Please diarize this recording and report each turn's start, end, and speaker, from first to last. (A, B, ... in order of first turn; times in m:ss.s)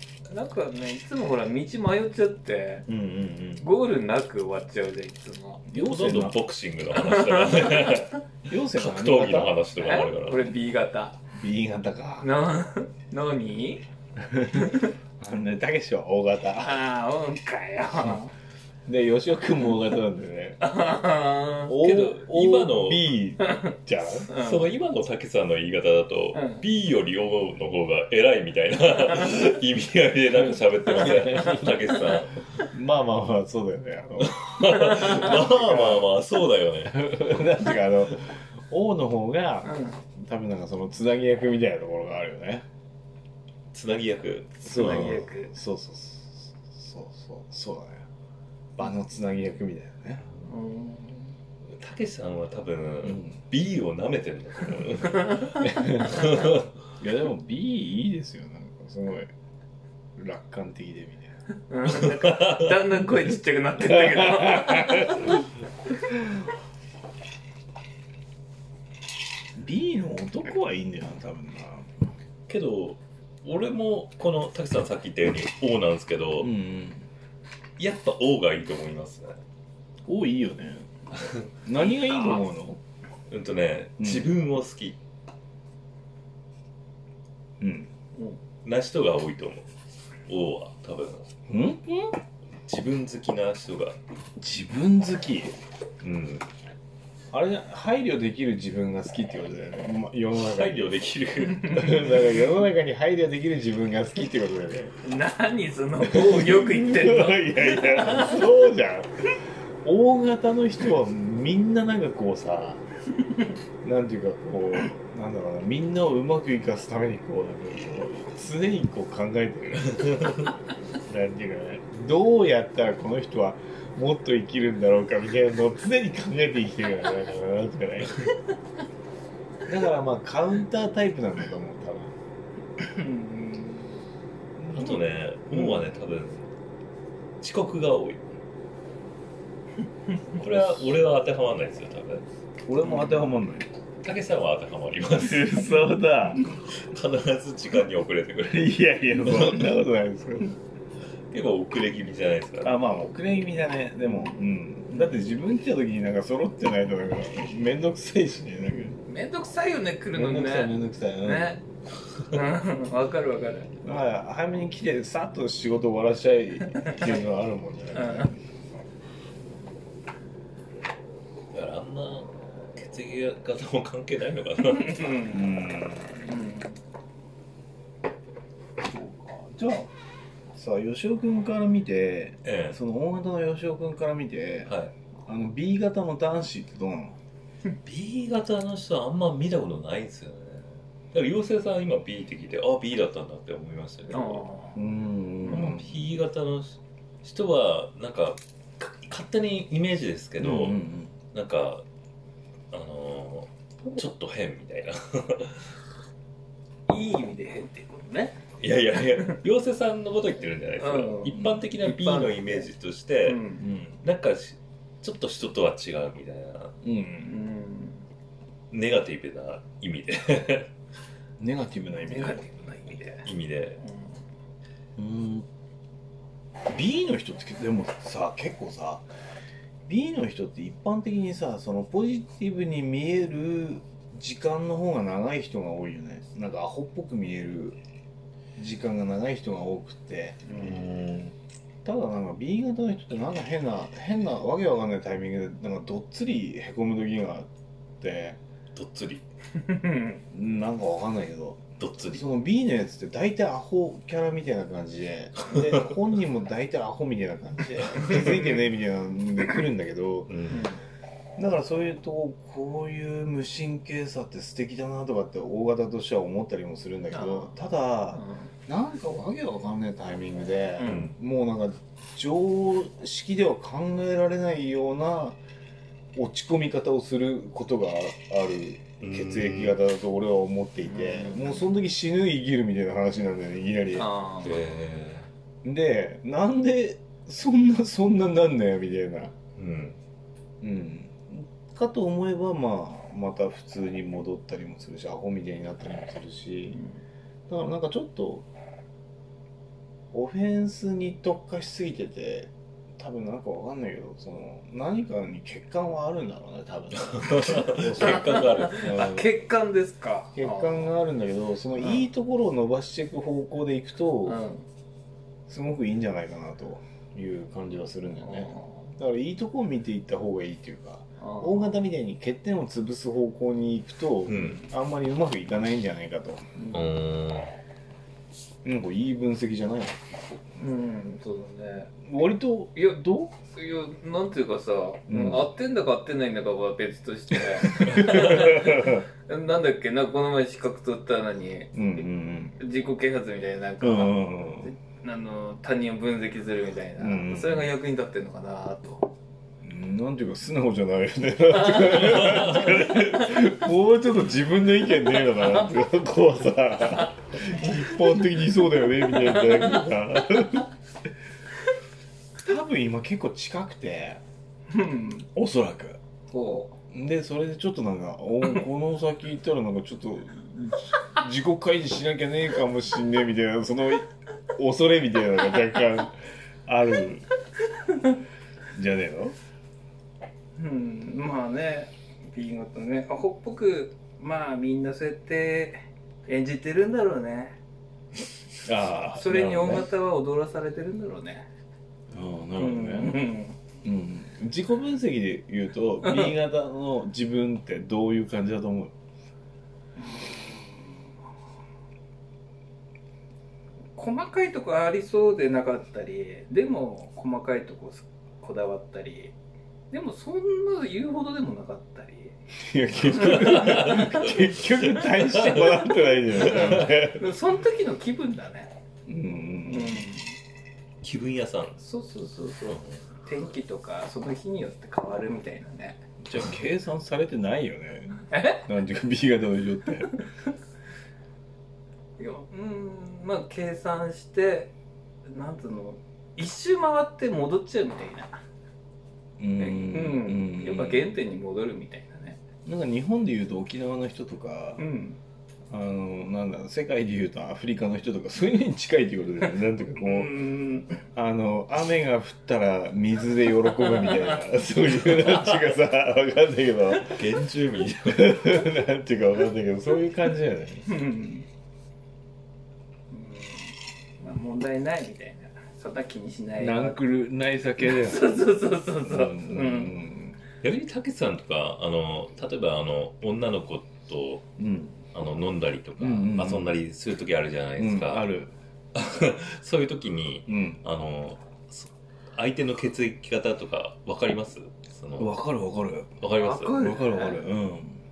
0:00.3-0:02.9 A
0:02.9-0:03.7 B
0:03.6-0:05.6 A
0:05.7-0:06.4 B
0:05.8-0:10.6 C
0:07.0-0:08.2 A
0:08.4-0:09.5 B
0:09.8-0:11.2 A
0:11.3-0:12.3 B
0:12.2-0:13.8 A
0:14.2-0:16.8 B
0:14.5-0:14.9 A
0:16.6-0:18.3 A
0:18.9-0:20.6 B
0:20.6-0:21.8 A
0:21.7-0:24.3 B
0:21.8-0:23.1 C
0:23.4-0:23.8 A
0:24.3-0:24.7 A
0:24.3-0:32.5 C
0:26.3-0:26.6 A
0:31.0-0:31.7 B
0:32.7-0:36.1 B
0:34.2-0:37.3 C
0:36.9-0:42.6 B
0:39.6-0:40.0 A
0:43.7-0:45.2 C
0:44.6-0:48.1 B
0:44.7-0:45.5 A
0:48.8-0:50.2 B
0:50.4-0:51.4 A
0:51.7-0:56.6 C
0:53.0-0:53.4 B
0:55.2-0:55.5 A
0:55.6-0:59.3 B
1:00.2-1:01.3 B
1:01.7-1:05.4 A
1:01.9-1:02.8 C
1:09.6-1:11.9 B
1:12.5-1:16.5 C
1:16.4-1:17.1 B
1:17.8-1:19.4 C
1:20.1-1:20.9 B
1:21.1-1:21.4 C
1:21.6-1:22.8 B
1:22.0-1:22.4 A
1:23.3-1:25.0 C
1:24.0-1:24.3 B
1:27.6-1:27.9 B
1:28.6-1:29.7 C
1:30.3-1:31.3 C
1:31.5-1:32.1 B
1:32.6-1:34.0 C
1:34.4-1:35.6 B
1:36.0-1:36.5 C
1:37.3-1:41.0 B
1:40.4-1:42.1 C
1:41.5-1:42.0 A
1:41.7-1:45.0 B
1:45.0-1:48.5 A
1:46.1-1:49.1 B
1:49.8-1:52.8 B
1:53.8-2:00.5 B
2:01.0-2:08.3 B
2:09.6-2:12.1 B
2:12.8-2:14.0 A
2:14.6-2:15.8 B
2:14.7-2:16.5 C
2:17.4-2:18.2 C
2:20.4-2:22.2 C
2:22.6-2:23.7 B
2:22.8-2:23.3 A
2:24.0-2:25.6 C
2:25.2-2:26.5 B
2:26.7-2:29.7 C
2:28.4-2:30.5 B
2:31.3-2:32.8 C
2:32.6-2:39.0 B
2:39.0-2:41.6 A
2:40.1-2:41.5 B
2:42.2-2:43.7 A
2:43.8-2:48.4 B
2:47.9-2:48.3 A
2:51.5-2:55.2 C
2:54.7-2:55.4 A
2:55.3-2:56.4 B
2:56.2-2:56.8 A
2:58.8-2:59.9 B
3:00.5-3:04.7 B
3:02.4-3:02.8 C
3:04.6-3:04.9 C
3:05.3-3:07.2 B
3:07.8-3:14.4 C
3:14.1-3:14.8 A
3:14.8-3:16.0 B
3:15.5-3:20.8 C
3:20.4-3:21.1 B
3:21.3-3:21.8 C
3:22.7-3:25.8 C
3:26.9-3:28.4 A
3:28.6-3:33.5 C
3:29.0-3:29.4 A
3:30.8-3:32.7 A
3:33.2-3:33.6 A
3:33.6-3:34.0 B
3:34.0-3:36.8 C
3:36.8-3:37.4 B
3:37.2-3:38.0 A
3:38.7-3:40.7 C
3:41.4-3:42.5 B
3:42.1-3:43.2 A
3:43.2-3:43.8 C
3:43.8-3:44.2 A
3:45.0-3:45.5 B
3:46.6-3:49.1 B
3:49.9-3:57.8 B
3:58.6-4:00.6 B
4:00.4-4:00.8 A
4:00.6-4:01.4 C
4:01.8-4:07.5 B
4:08.0-4:08.4 B
4:08.8-4:09.2 C
4:09.6-4:10.2 A
4:10.3-4:20.3 B
4:11.8-4:12.2 C
4:15.5-4:15.9 C
4:17.9-4:18.3 C
4:20.3-4:20.7 C
4:20.5-4:20.8 A
4:21.4-4:35.4 B
4:27.1-4:27.6 A
4:28.1-4:28.5 A
4:30.8-4:31.1 A
4:30.8-4:31.1 C
4:36.1-4:44.1 B
4:39.0-4:39.8 C
4:40.9-4:41.7 A
4:44.0-4:44.6 A
4:44.4-4:45.3 C
4:45.6-4:49.3 B
4:49.6-4:50.0 C
4:50.6-4:56.8 B
4:56.7-4:57.0 A
4:57.5-4:58.5 B
5:00.1-5:09.4 B
5:07.1-5:08.9 C
5:08.0-5:10.9 A
5:10.4-5:14.4 B
5:11.8-5:12.1 A
5:14.2-5:14.6 A
5:15.5-5:26.5 B
5:18.2-5:18.9 A
5:21.2-5:21.7 A
5:24.3-5:24.6 C
5:26.6-5:26.9 A
5:26.7-5:27.5 C
5:28.6-5:30.4 B
5:30.6-5:32.0 A
5:32.0-5:33.4 B
5:32.8-5:42.0 A
5:35.1-5:35.5 B
5:37.6-5:39.1 B
5:41.7-5:42.6 B
5:42.6-5:49.1 A
5:43.8-5:44.7 B
5:47.0-5:47.7 B
5:49.6-6:00.7 B
5:51.7-5:53.1 A
5:52.2-5:52.5 C
5:59.1-5:59.8 A
6:02.4-6:04.2 B
6:04.7-6:05.3 A
6:05.4-6:06.0 B
6:06.3-6:06.8 A
6:06.9-6:17.2 B
6:18.7-6:19.4 B
6:20.6-6:27.6 A
6:28.6-6:29.9 B
6:29.1-6:31.5 A
6:32.1-6:33.2 B
6:32.6-6:33.6 A
6:33.8-6:38.9 B
6:36.0-6:36.3 A
6:40.0-6:41.0 A
6:44.0-6:49.3 A
6:49.9-6:52.4 A
6:52.6-6:57.2 B
6:53.2-6:54.2 C
6:53.2-6:54.0 A
6:56.4-6:58.7 A
6:56.5-6:56.8 C
6:59.1-7:00.1 B
6:59.7-7:00.3 A
7:01.0-7:01.8 C
7:01.8-7:06.0 A
7:02.7-7:03.0 C
7:06.2-7:10.2 B
7:08.3-7:08.6 A
7:12.2-7:14.7 A
7:15.2-7:18.4 A
7:19.4-7:21.1 B
7:19.6-7:22.4 A
7:22.6-7:24.8 B
7:24.8-7:25.2 A
7:25.7-7:30.5 B
7:30.0-7:31.0 A
7:31.1-7:37.2 B
7:34.0-7:34.3 A
7:35.1-7:35.6 C
7:37.1-7:38.6 C
7:38.0-7:40.9 B
7:40.9-7:41.5 A
7:43.1-7:47.0 A
7:46.6-7:48.4 B
7:47.8-7:50.0 A
7:49.0-7:50.4 B
7:50.6-7:54.5 C
7:54.6-7:55.0 B
7:55.1-7:58.2 C
7:56.0-7:56.7 B
7:57.8-7:58.5 B
7:58.9-8:05.3 C
8:00.5-8:00.8 B
8:05.2-8:06.2 B
8:06.2-8:06.8 C
8:06.3-8:07.4 A
8:06.8-8:08.0 B